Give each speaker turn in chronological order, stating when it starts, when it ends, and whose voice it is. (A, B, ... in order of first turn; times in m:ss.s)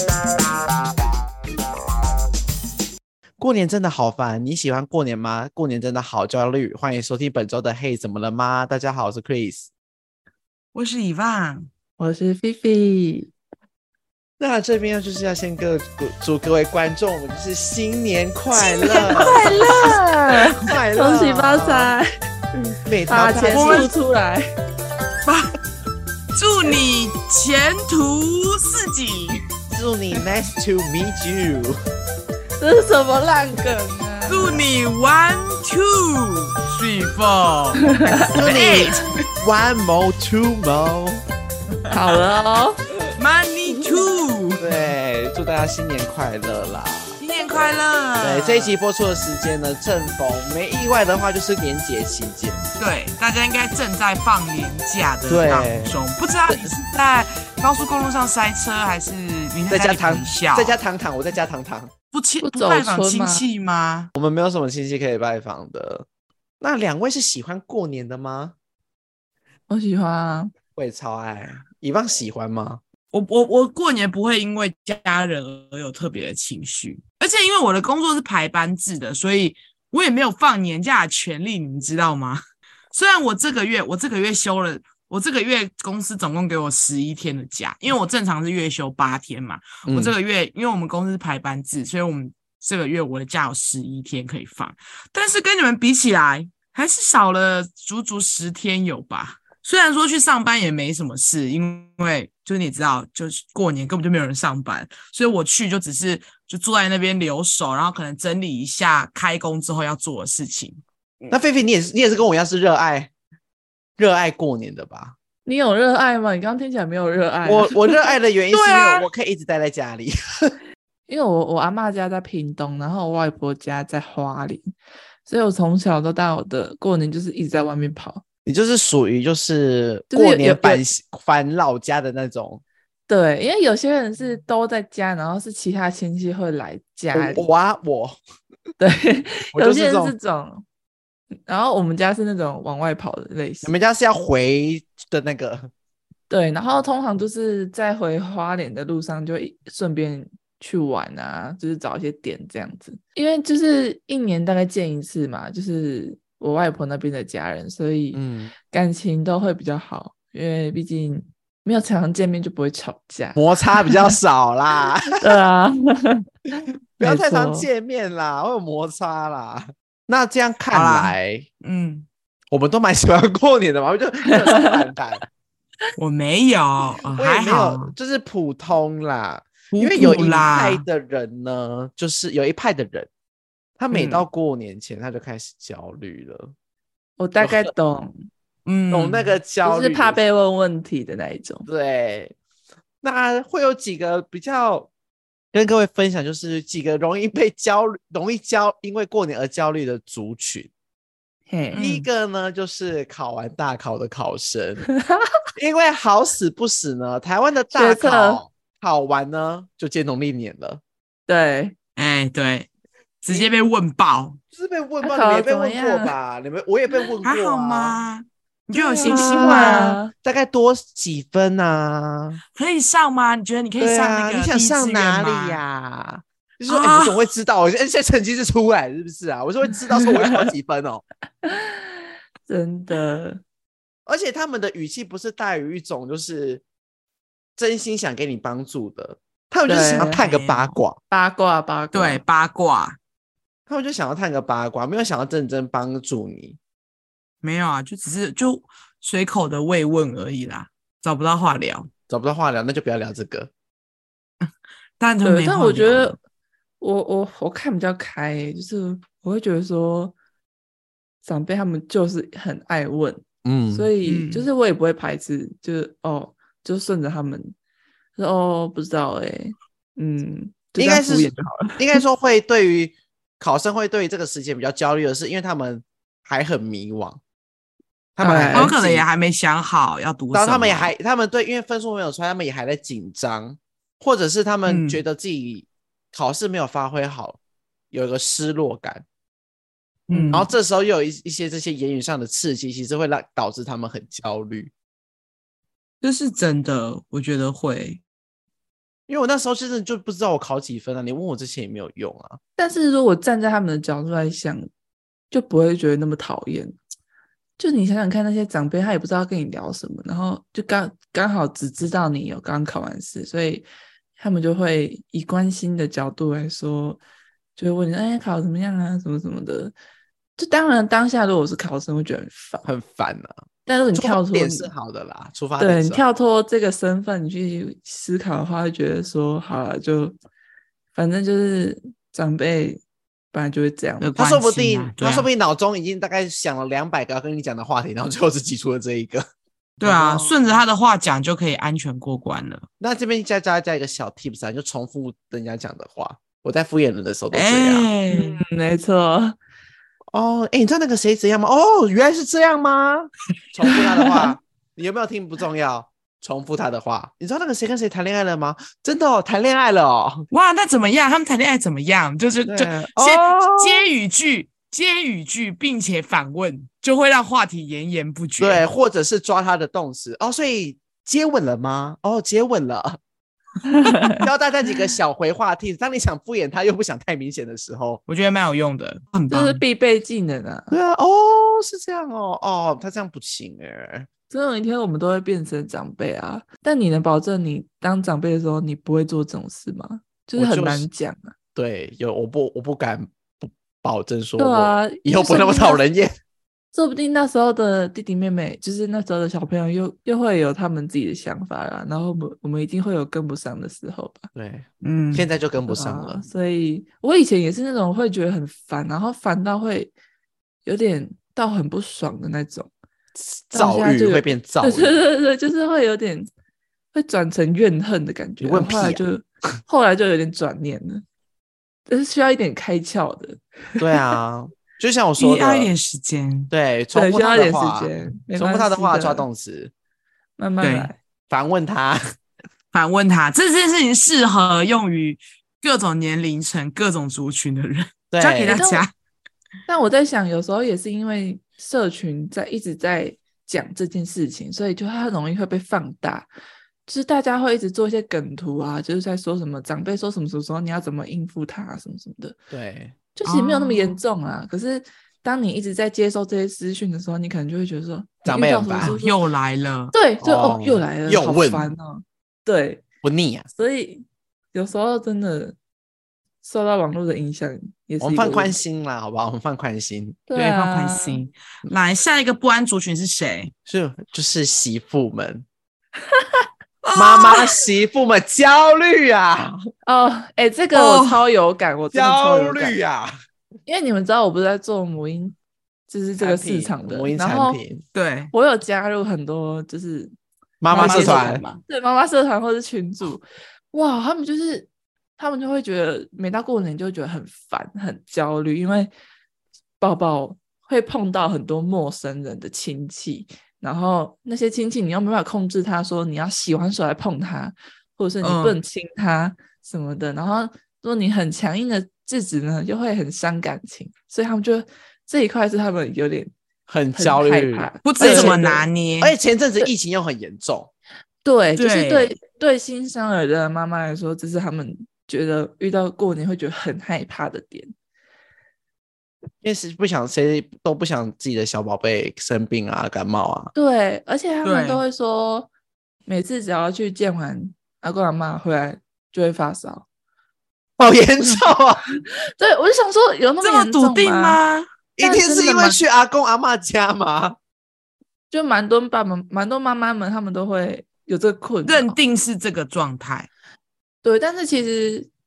0:03.4-0:09.7 A
0:10.7-0:11.7 B
0:12.0-0:13.3 C
0:14.4-0:21.9 A
0:18.6-0:20.7 B
0:18.8-0:20.0 C
0:20.6-0:22.1 C
0:22.8-0:23.9 A
0:23.1-0:24.5 C
0:23.5-0:23.9 B
0:25.2-0:25.5 B
0:26.3-0:29.4 B
0:29.7-0:31.8 A
0:32.6-0:34.6 C
0:34.3-0:39.1 B
0:37.9-0:38.4 C
0:38.3-0:41.2 A
0:41.9-0:42.8 C
0:43.2-0:44.6 B
0:44.6-0:52.7 A
0:47.2-0:48.7 B
0:52.8-1:00.8 B
0:55.3-0:56.0 A
0:59.7-1:01.9 A
1:02.1-1:04.1 B
1:02.4-1:03.4 C
1:04.1-1:06.0 A
1:06.6-1:08.5 A
1:09.7-1:10.5 C
1:10.8-1:12.8 A
1:13.1-1:22.4 B
1:22.9-1:51.3 B
1:29.9-1:30.1 A
1:51.3-1:53.1 A
1:54.0-1:55.2 A
1:55.4-1:58.0 C
1:57.4-2:00.6 A
1:58.5-1:59.1 B
2:01.1-2:04.7 C
2:05.2-2:08.2 C
2:08.4-2:12.6 A
2:10.1-2:10.8 C
2:13.1-2:17.4 C
2:17.1-2:18.2 A
2:18.8-2:20.6 C
2:19.5-2:20.1 A
2:21.4-2:23.7 C
2:23.6-2:25.7 A
2:26.3-2:44.2 C
2:38.1-2:38.5 A
2:43.4-2:45.4 A
2:45.2-2:46.2 C
2:47.0-2:51.4 A
2:47.0-2:47.7 C
2:50.7-2:52.1 B
2:52.5-2:55.2 A
2:54.3-2:54.7 C
2:56.0-2:57.9 B
2:57.2-3:03.1 A
2:59.7-3:00.8 B
3:03.8-3:06.5 A
3:03.9-3:04.2 B
3:07.2-3:08.2 C
3:07.4-3:07.7 A
3:08.6-3:09.4 B
3:08.9-3:10.2 A
3:09.6-3:11.6 C
3:11.6-3:12.3 A
3:13.0-3:14.9 A
3:15.5-3:20.7 A
3:21.5-3:21.8 C
3:21.7-3:22.0 B
3:21.8-3:24.9 A
3:24.9-3:25.3 C
3:25.6-3:30.8 A
3:27.7-3:28.4 C
3:31.3-3:31.7 C
3:32.0-3:32.7 B
3:33.2-3:34.4 B
3:33.3-3:33.5 A
3:34.5-3:38.0 A
3:35.0-3:36.2 C
3:37.2-3:40.0 B
3:38.8-3:42.4 A
3:39.0-3:40.1 C
3:42.5-3:45.6 B
3:43.8-3:51.0 A
3:46.7-3:47.3 B
3:51.4-3:51.8 C
3:52.5-3:53.4 C
3:54.0-3:56.6 A
3:57.6-4:01.0 A
3:59.6-4:00.2 C
3:59.7-4:00.7 B
4:01.1-4:02.2 C
4:01.9-4:03.0 B
4:03.7-4:06.6 A
4:07.4-4:11.9 B
4:12.1-4:13.5 A
4:15.0-4:16.2 B
4:15.2-4:16.2 C
4:16.8-4:20.1 C
4:21.2-4:27.5 C
4:23.4-4:23.9 A
4:24.0-4:24.5 B
4:28.2-4:32.0 C
4:30.8-4:37.2 A
4:38.2-4:39.0 A
4:38.2-4:38.7 C
4:38.5-4:40.9 B
4:40.3-4:47.4 A
4:44.6-4:45.0 B
4:47.9-4:49.0 A
4:50.1-4:50.5 B
4:50.3-4:54.7 A
4:56.0-4:58.0 B
4:59.1-5:02.4 A
5:02.6-5:04.7 C
5:05.3-5:06.8 C
5:07.6-5:13.6 C
5:14.2-5:17.0 C
5:17.6-5:19.7 C
5:20.4-5:22.7 C
5:22.6-5:23.4 A
5:23.6-5:24.7 C
5:23.9-5:26.0 A
5:25.6-5:30.2 C
5:30.9-5:34.1 C
5:34.0-5:35.3 B
5:34.2-5:39.2 A
5:39.8-5:42.6 B
5:39.8-5:40.6 A
5:42.8-5:47.8 A
5:47.3-5:48.4 B
5:48.1-5:49.4 C
5:50.1-6:00.2 A
5:53.7-5:54.3 C
6:00.3-6:08.6 B
6:02.5-6:03.8 A
6:08.4-6:13.0 A
6:13.6-6:14.2 C
6:14.0-6:18.0 A
6:18.1-6:19.6 B
6:19.3-6:20.7 C
6:20.7-6:24.1 A
6:24.3-6:31.3 C
6:30.4-6:30.9 A
6:31.5-6:36.2 A
6:34.4-6:35.8 C
6:36.7-6:44.3 C
6:44.3-6:46.2 A
6:44.8-6:45.3 B
6:45.6-6:49.9 C
6:50.6-6:52.7 C
6:53.1-6:55.0 A
6:53.5-6:56.3 C
6:56.9-7:01.0 C
6:58.4-6:59.0 A
7:01.9-7:03.8 C
7:03.8-7:05.7 A
7:05.2-7:06.5 B
7:06.5-7:09.7 A
7:06.9-7:09.2 C
7:10.4-7:11.0 C
7:10.6-7:10.9 B
7:11.3-7:12.0 A
7:12.7-7:18.9 B
7:18.1-7:18.6 A
7:18.5-7:18.8 C
7:19.7-7:26.3 C
7:26.9-7:32.4 C
7:32.5-7:33.0 A
7:33.2-7:39.2 C
7:33.2-7:34.0 B
7:38.2-7:39.0 A
7:38.8-7:39.9 B
7:39.9-7:42.8 C
7:40.2-7:41.7 A
7:43.0-7:43.5 A
7:43.5-7:45.6 C
7:46.4-7:48.6 C
7:48.0-7:50.2 A
7:50.3-7:51.2 C
7:50.3-7:53.5 B
7:53.6-7:55.4 A
7:56.8-7:57.5 B
7:56.9-7:59.6 A
7:59.8-8:02.8 C
8:00.7-8:01.2 B
8:01.9-8:03.1 A
8:03.6-8:05.4 C
8:05.9-8:07.6 C
8:06.2-8:07.8 A
8:07.9-8:08.3 B
8:08.3-8:10.1 C
8:10.6-8:11.4 A
8:10.7-8:18.9 C
8:10.7-8:11.6 B
8:19.8-8:36.3 C
8:28.2-8:28.6 B
8:36.7-8:38.4 A
8:36.9-8:38.6 C
8:37.8-8:39.1 B
8:39.0-8:40.7 A
8:41.2-8:47.7 C
8:41.6-8:42.1 B
8:49.4-8:53.5 A
8:53.5-8:55.5 C
8:54.4-8:54.8 B
8:56.1-8:59.8 C
9:00.8-9:01.8 A
9:01.2-9:01.5 C
9:02.4-9:04.4 C
9:03.4-9:04.7 B
9:05.0-9:07.4 A
9:05.0-9:05.8 C
9:08.3-9:11.9 C
9:11.6-9:13.3 B
9:14.0-9:15.1 C